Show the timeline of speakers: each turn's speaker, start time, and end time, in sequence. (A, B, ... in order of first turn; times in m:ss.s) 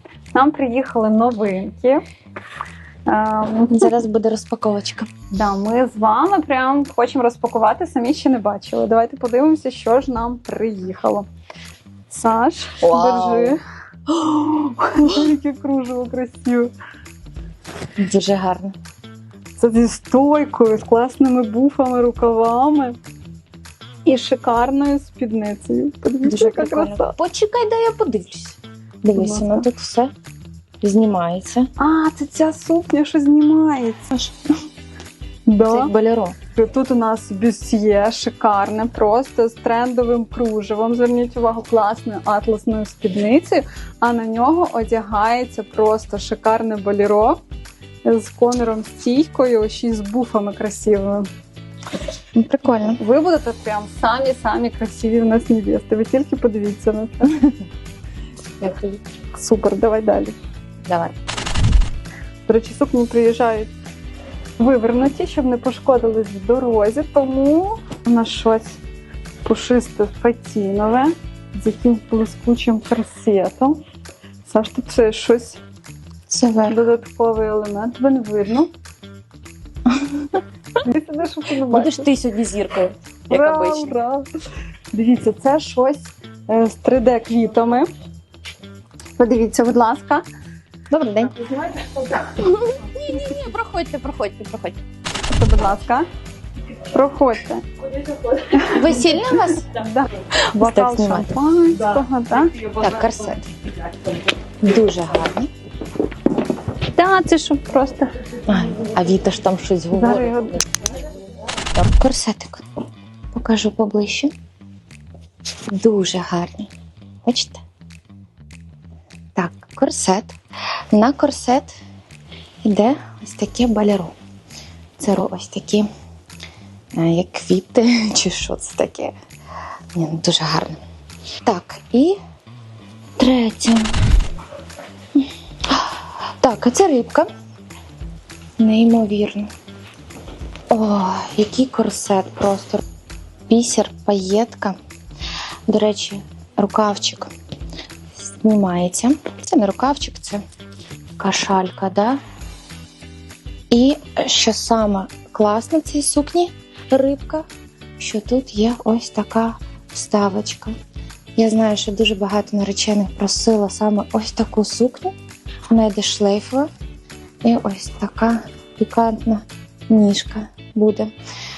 0:00.3-0:02.0 A
0:03.1-0:03.9 A
0:03.7-0:05.1 B
0:05.3-0:11.2 A
0:12.1-0:16.7 A
0:12.8-0:13.6 B
0:18.0-0:18.7 B
0:19.6-0:23.0 A
0:24.0-0:27.1 A
0:26.2-0:30.1 B
0:29.2-0:29.7 A
0:30.8-0:31.7 B
0:31.8-0:34.2 A
0:35.5-0:35.9 A
0:35.6-0:36.4 B
0:36.5-0:47.4 A
0:48.0-0:51.3 A
0:52.3-0:53.0 B
0:53.0-0:57.5 A
0:58.6-0:59.0 B
0:59.3-1:00.4 A
1:00.8-1:01.1 B
1:02.5-1:03.7 A
1:04.6-1:08.8 A
1:09.4-1:13.8 A
1:14.4-1:15.6 A
1:16.3-1:16.8 B
1:16.7-1:18.7 A
1:19.9-1:20.4 B
1:20.8-1:22.1 A
1:21.7-1:24.0 B
1:23.3-1:24.3 A
1:24.9-1:27.9 A
1:29.2-1:30.2 A
1:30.9-1:31.5 B
1:32.3-1:34.8 B
1:35.3-1:36.0 A
1:36.8-1:37.6 A
1:38.4-1:42.6 A
1:38.7-1:39.7 B
1:40.6-1:41.3 B
1:42.7-1:43.5 B
1:44.6-1:45.5 B
1:46.9-1:48.1 A
1:48.5-1:50.6 B
1:49.9-1:50.6 A
1:51.7-1:52.6 B
1:53.3-1:54.3 B
1:55.7-1:56.7 B
1:57.2-1:57.6 B
1:59.4-2:00.4 B
2:00.9-2:01.8 B
2:02.6-2:04.1 B
2:05.0-2:05.9 B
2:06.9-2:09.1 B
2:09.9-2:10.8 B
2:11.4-2:12.2 B
2:13.2-2:13.9 B
2:15.1-2:17.3 B
2:18.6-2:19.5 B
2:20.7-2:22.8 B
2:23.5-2:24.7 B
2:25.7-2:27.3 B
2:28.1-2:30.4 B
2:31.2-2:32.2 B
2:33.7-2:37.4 B
2:38.0-2:40.7 B
2:41.4-2:45.1 B
2:45.7-2:46.7 B
2:47.4-2:51.1 B